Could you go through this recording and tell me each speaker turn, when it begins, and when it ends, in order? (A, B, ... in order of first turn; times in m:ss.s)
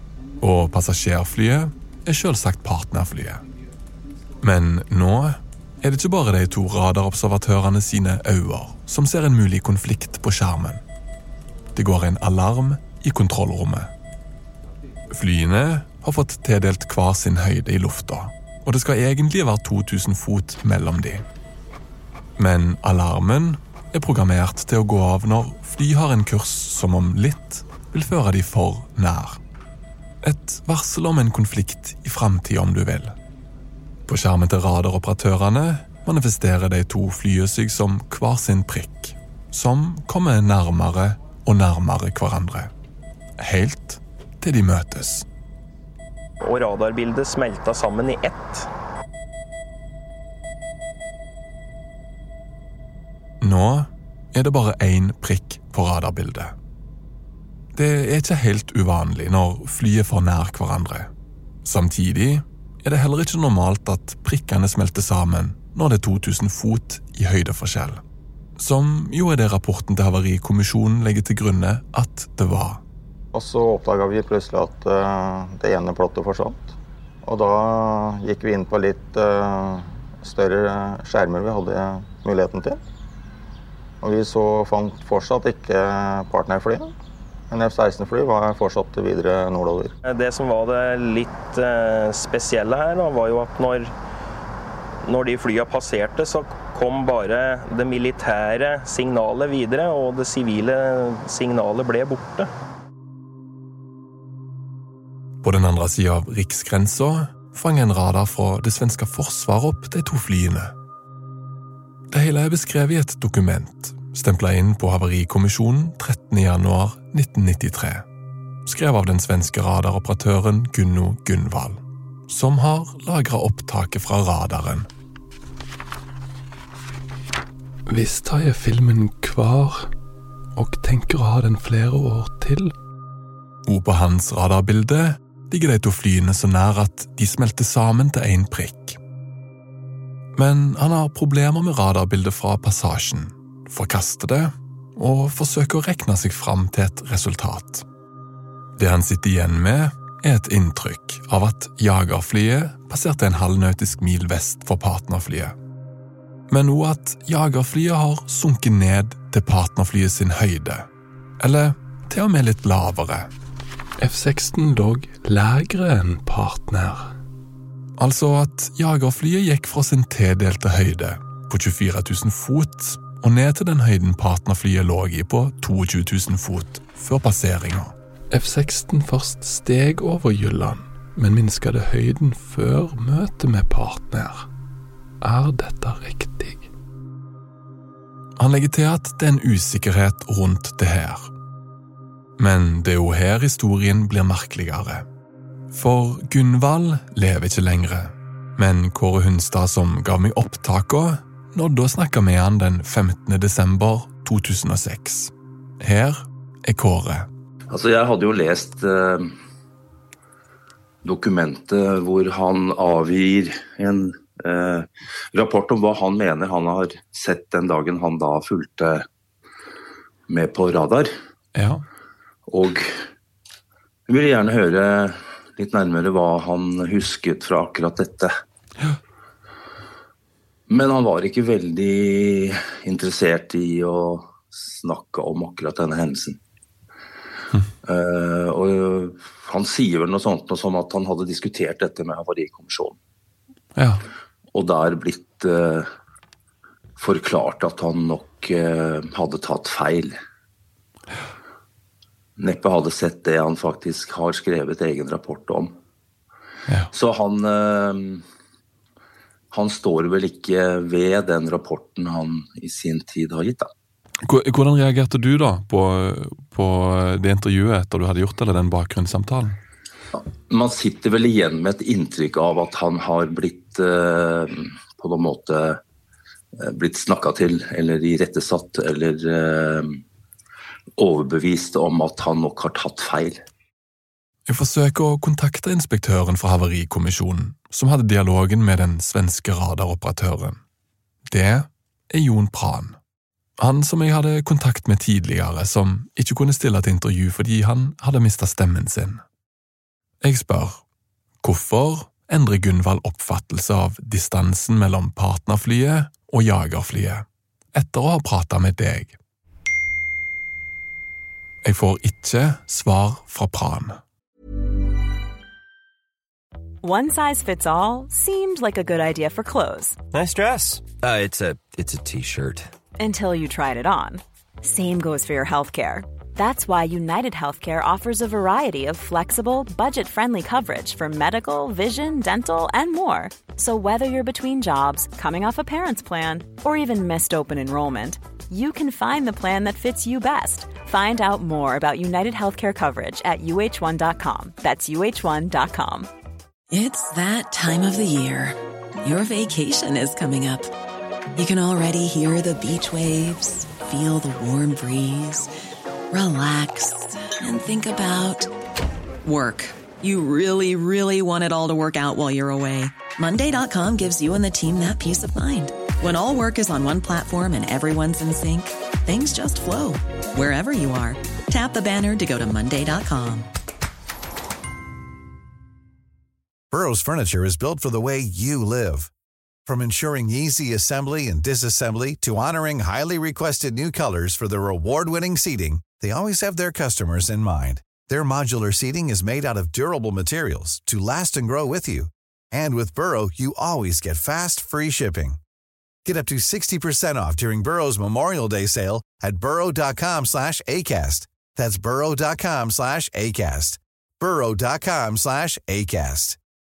0:00.4-0:03.4 A
0:04.4-0:10.8 A
0:11.8-0:13.9 A
0:15.1-0:21.2 A
0:22.4-0:29.4 A
0:30.2-0:33.2 A
0:34.1-0:42.7 A
0:43.4-0:45.3 A
0:46.4-0:48.7 B
0:53.4-0:56.6 A
0:57.8-1:01.1 A
1:01.6-1:08.0 A
1:08.6-1:12.8 A
1:13.3-1:22.8 C
1:24.0-1:26.9 C
1:27.5-1:29.9 C
1:30.1-1:33.9 B
1:35.1-1:42.5 B
1:45.4-1:50.7 A
1:52.1-1:58.1 A
1:58.6-2:04.9 A
2:07.9-2:09.9 A
2:10.6-2:12.7 A
2:13.7-2:19.0 A
2:20.4-2:27.8 A
2:28.8-2:35.6 A
2:36.5-2:40.9 A
2:41.4-2:43.3 A
2:44.0-2:47.1 A
2:48.0-3:04.5 A
3:05.2-3:06.7 A
3:08.4-3:11.3 A
3:12.4-3:15.1 A
3:15.7-3:27.3 A
3:27.7-3:29.4 D
3:31.0-3:39.0 D
3:40.3-3:41.1 D
3:41.6-3:41.8 A
3:42.5-3:43.0 D
3:44.1-3:48.3 D
3:50.7-3:56.4 D
3:57.8-4:03.0 D
4:03.8-4:04.0 A
4:04.5-4:05.9 D
4:07.0-4:10.2 D
4:12.4-4:15.8 D
4:16.9-4:18.2 D
4:19.5-4:23.7 D
4:24.2-4:29.6 A
4:30.1-4:35.8 D
4:36.6-4:40.0 D
4:41.0-4:43.4 D
4:44.5-4:50.6 A
4:51.3-4:53.0 A
4:53.6-4:59.2 A
5:00.2-5:00.8 A
5:01.4-5:09.2 A
5:11.6-5:14.0 A
5:16.8-5:20.0 E
5:20.1-5:22.7 F
5:23.0-5:46.1 E
5:46.7-5:50.7 G
5:51.4-5:55.5 G
5:56.1-5:58.5 G
5:59.2-6:13.5 G
6:16.7-6:19.1 H
6:19.7-6:35.4 H
6:36.0-6:46.4 H